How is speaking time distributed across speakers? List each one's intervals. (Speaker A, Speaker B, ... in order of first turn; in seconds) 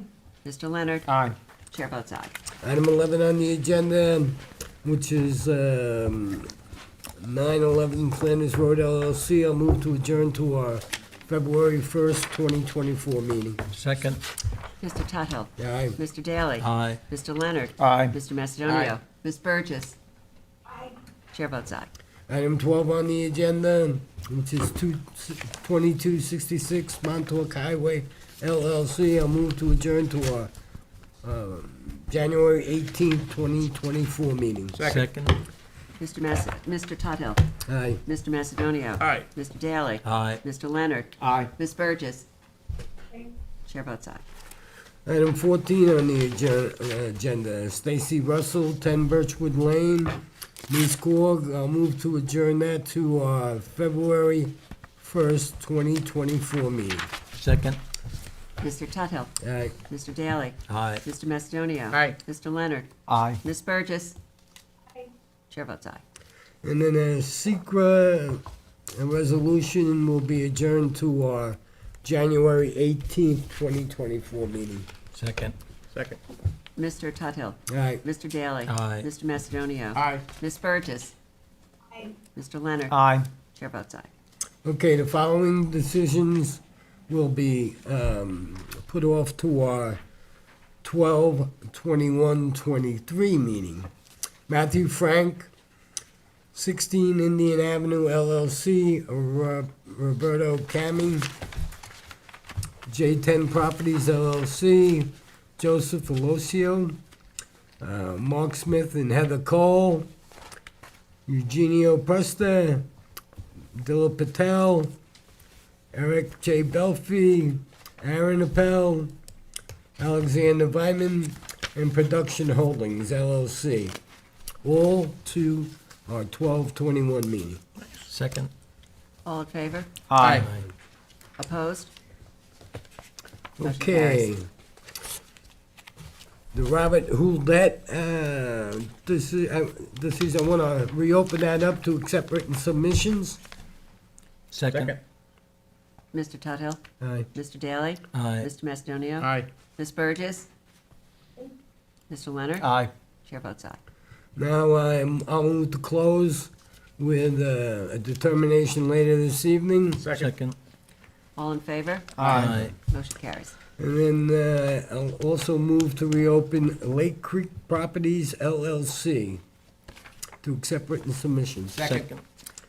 Speaker A: 0.4-1.1, 1.7-2.3, 14.8-20.0, 21.3-21.9, 36.0-37.4, 38.0-42.3, 43.6-44.2, 58.6-59.3, 59.9-62.9, 63.4-64.2, 65.5-66.0, 76.8-81.1, 82.0-83.0, 83.5-84.1, 129.2-129.9, 131.4-131.9, 133.6-134.3, 146.1-146.8, 147.3-150.5, 152.1-152.7, 153.2-153.8, 161.3-163.5
Speaker B: 1.1-1.3, 17.8-18.1, 34.8-35.0, 39.0-39.3, 41.2-41.5, 61.9-62.2, 63.1-63.4, 75.9-76.2, 79.9-80.2, 82.9-83.3, 130.1-130.5, 144.7-145.0, 149.2-149.5, 152.6-152.9, 160.0-160.3, 162.2-162.6, 171.7-172.1
Speaker C: 2.6-6.5, 7.2-13.6, 15.6-16.0, 22.3-30.5, 31.2-34.8, 37.7-38.0, 45.0-57.1, 59.4-59.8, 66.6-68.4, 68.9-74.9, 77.7-78.0, 84.6-90.0, 90.8-93.9, 94.5-95.5, 96.5-101.3, 102.9-107.0, 107.8-110.1, 111.3-112.9, 113.7-114.9, 115.9-119.1, 120.0-124.0, 124.6-127.6, 133.6-134.4, 136.5-143.4, 147.0-147.3, 154.3-160.1, 163.8-169.4, 170.4-171.8
Speaker D: 13.7-14.2, 16.6-17.0, 34.8-35.4, 40.0-40.4, 57.4-57.8, 60.7-61.0, 75.1-75.5, 78.7-79.1, 127.8-128.5, 130.2-130.7, 144.5-145.0, 148.1-148.5, 160.1-160.6, 162.2-162.7, 171.8-172.2